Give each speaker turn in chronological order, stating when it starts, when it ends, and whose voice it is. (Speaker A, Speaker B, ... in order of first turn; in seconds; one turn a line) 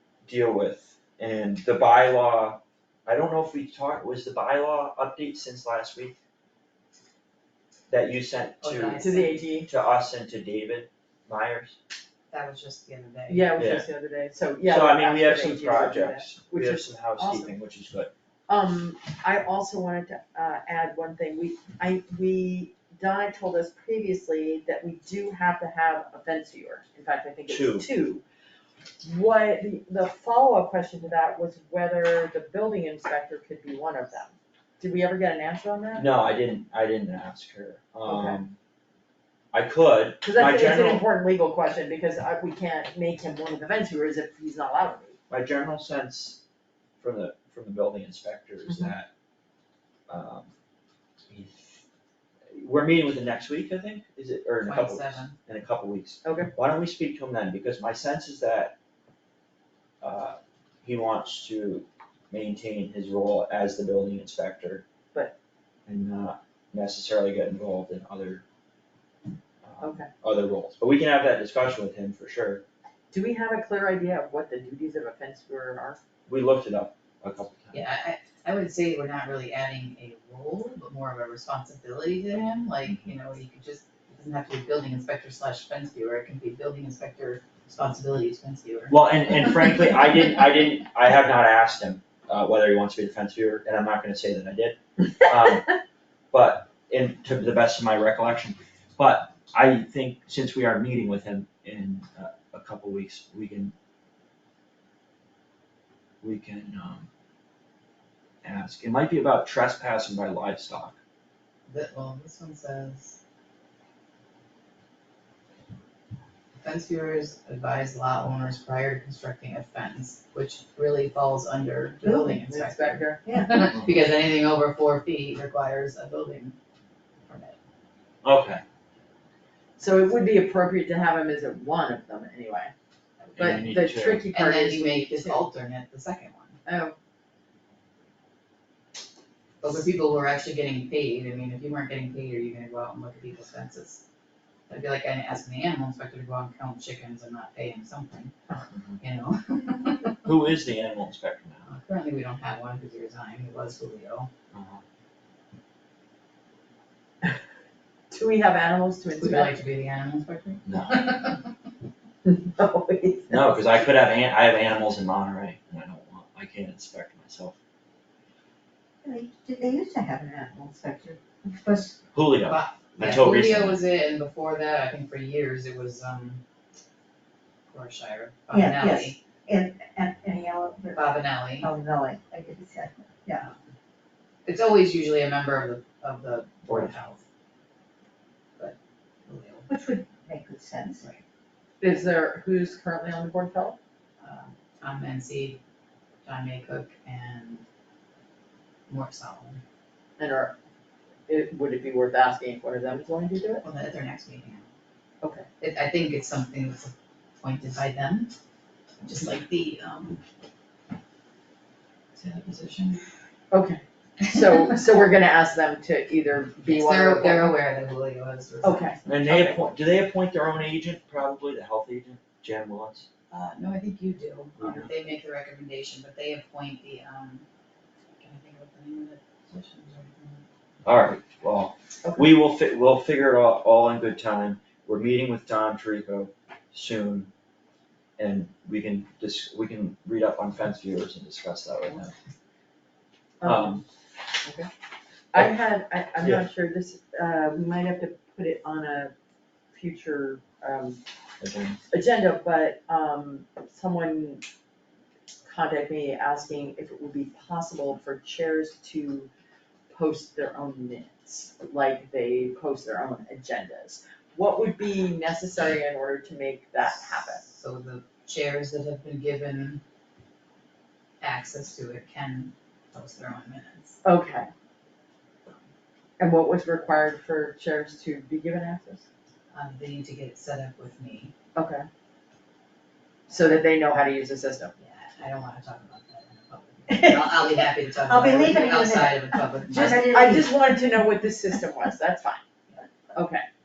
Speaker A: 0.3-6.2
Speaker A: 7.9-9.1
Speaker B: 8.6-9.4
Speaker C: 9.0-9.7
Speaker A: 9.7-11.8
Speaker B: 12.3-13.6
Speaker C: 13.3-17.5
Speaker A: 13.6-13.9
Speaker A: 14.7-18.1
Speaker C: 18.5-28.2
Speaker A: 27.5-27.9
Speaker C: 29.0-36.1
Speaker A: 36.0-38.6
Speaker C: 38.0-38.4
Speaker A: 39.5-41.0
Speaker C: 40.2-45.2
Speaker A: 45.3-46.4
Speaker A: 47.0-49.1
Speaker A: 50.1-50.5
Speaker A: 51.3-51.8
Speaker A: 52.5-58.8
Speaker B: 54.6-55.4
Speaker C: 56.2-56.5
Speaker A: 60.0-64.9
Speaker A: 65.9-68.4
Speaker A: 69.6-72.6
Speaker C: 69.8-70.1
Speaker C: 73.1-76.0
Speaker A: 76.3-77.8
Speaker B: 77.7-89.0
Speaker A: 88.9-95.7
Speaker A: 96.3-103.8
Speaker A: 106.2-107.1
Speaker A: 108.4-111.0
Speaker B: 111.7-113.2
Speaker B: 116.6-126.6
Speaker D: 122.0-122.4
Speaker C: 122.5-123.2
Speaker D: 123.3-123.7
Speaker B: 127.3-127.6
Speaker A: 128.2-128.6
Speaker C: 129.8-132.7
Speaker A: 133.4-134.3
Speaker C: 133.4-135.5
Speaker B: 134.3-136.6
Speaker C: 136.7-136.9
Speaker B: 139.6-144.0
Speaker B: 144.7-148.3
Speaker A: 148.7-149.0
Speaker B: 149.0-150.3
Speaker A: 150.2-151.7
Speaker B: 151.7-154.3
Speaker A: 154.5-154.8
Speaker C: 158.1-159.6
Speaker B: 159.2-161.5
Speaker A: 160.7-161.2
Speaker C: 162.2-163.6
Speaker A: 163.3-167.6
Speaker D: 169.0-172.0
Speaker A: 172.1-173.8
Speaker B: 172.5-176.4
Speaker B: 177.7-179.2
Speaker D: 178.5-183.5
Speaker B: 180.9-181.7
Speaker B: 184.4-187.2
Speaker A: 186.7-186.9
Speaker B: 188.6-189.7
Speaker D: 189.7-191.1
Speaker C: 191.8-193.8
Speaker B: 194.2-195.6
Speaker B: 196.2-197.7
Speaker B: 198.9-199.6
Speaker C: 200.2-200.6
Speaker C: 201.3-203.6
Speaker B: 203.6-204.7
Speaker C: 205.2-205.5
Speaker B: 205.6-208.3
Speaker B: 209.0-210.2
Speaker B: 212.1-213.0
Speaker C: 213.5-217.6
Speaker B: 216.6-219.2
Speaker C: 218.6-219.6
Speaker A: 219.1-223.1
Speaker B: 223.3-227.4
Speaker A: 224.6-224.9
Speaker B: 228.2-230.5
Speaker A: 230.8-237.3
Speaker A: 238.2-242.1
Speaker C: 243.4-243.8
Speaker A: 243.4-243.8
Speaker C: 244.4-244.7
Speaker C: 245.3-249.1
Speaker C: 249.7-251.0
Speaker A: 251.4-251.8
Speaker C: 251.9-254.4
Speaker C: 255.5-259.3
Speaker C: 259.9-267.4
Speaker B: 267.1-269.8
Speaker B: 271.2-274.0
Speaker C: 274.0-274.5
Speaker C: 276.2-279.1
Speaker B: 279.5-281.3
Speaker C: 281.6-281.9
Speaker C: 283.3-284.7
Speaker B: 284.8-290.1
Speaker D: 286.9-287.3
Speaker D: 288.1-290.8
Speaker C: 289.7-292.4
Speaker C: 293.1-293.4